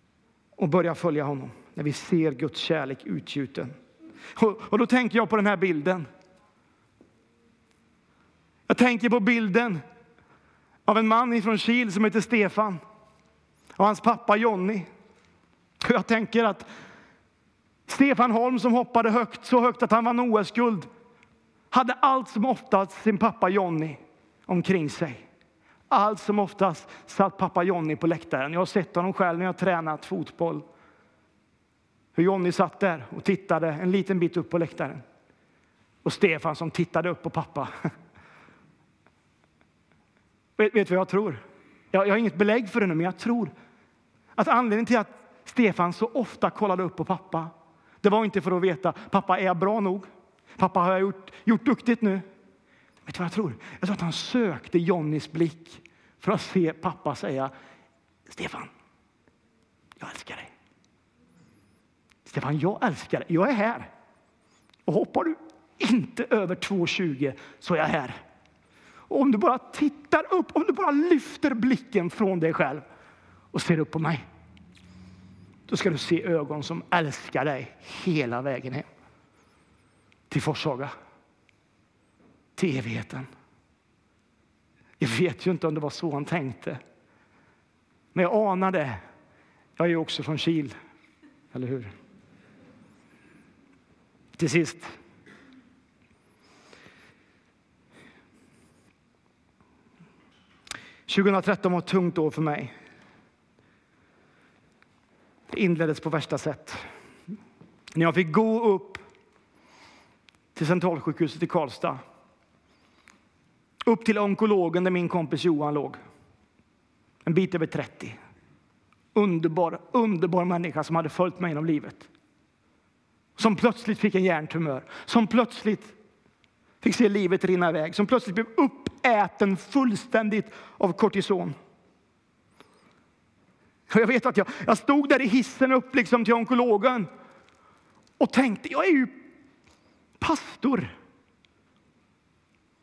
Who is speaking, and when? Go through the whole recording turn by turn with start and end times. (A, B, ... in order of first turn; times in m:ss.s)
0:00.6-0:03.7 A
0:04.4-0:06.1 A
0:08.7-0:09.8 A
0:10.9-0:12.8 A
0:13.8-0:14.9 A
0:15.8-0:16.7 A
0:17.9-0:20.9 A
0:21.7-0:25.3 A
0:25.9-0:30.6 A
0:32.2-0:35.0 A
0:36.0-0:37.7 A
0:40.6-0:43.5 A
0:44.4-0:52.2 A
0:53.1-0:57.5 A
0:58.3-0:58.7 A
1:00.0-1:00.5 A
1:02.3-1:03.9 A
1:04.9-1:08.2 A
1:09.1-1:12.8 A
1:13.5-1:14.2 A
1:15.7-1:18.9 A
1:20.3-1:20.9 A
1:22.6-1:23.3 A
1:25.0-1:26.8 A
1:28.1-1:29.0 A
1:29.8-1:30.8 A
1:31.5-1:31.9 A
1:34.4-1:35.0 A
1:41.1-1:42.7 A
1:45.5-1:46.9 A
1:47.9-1:49.0 A
1:50.6-1:52.0 A
1:53.8-1:56.0 A
1:57.2-1:58.2 A
1:59.1-2:02.1 A
2:03.4-2:06.0 A
2:06.8-2:11.6 A
2:13.9-2:17.1 A
2:18.2-2:19.2 A
2:20.2-2:20.9 A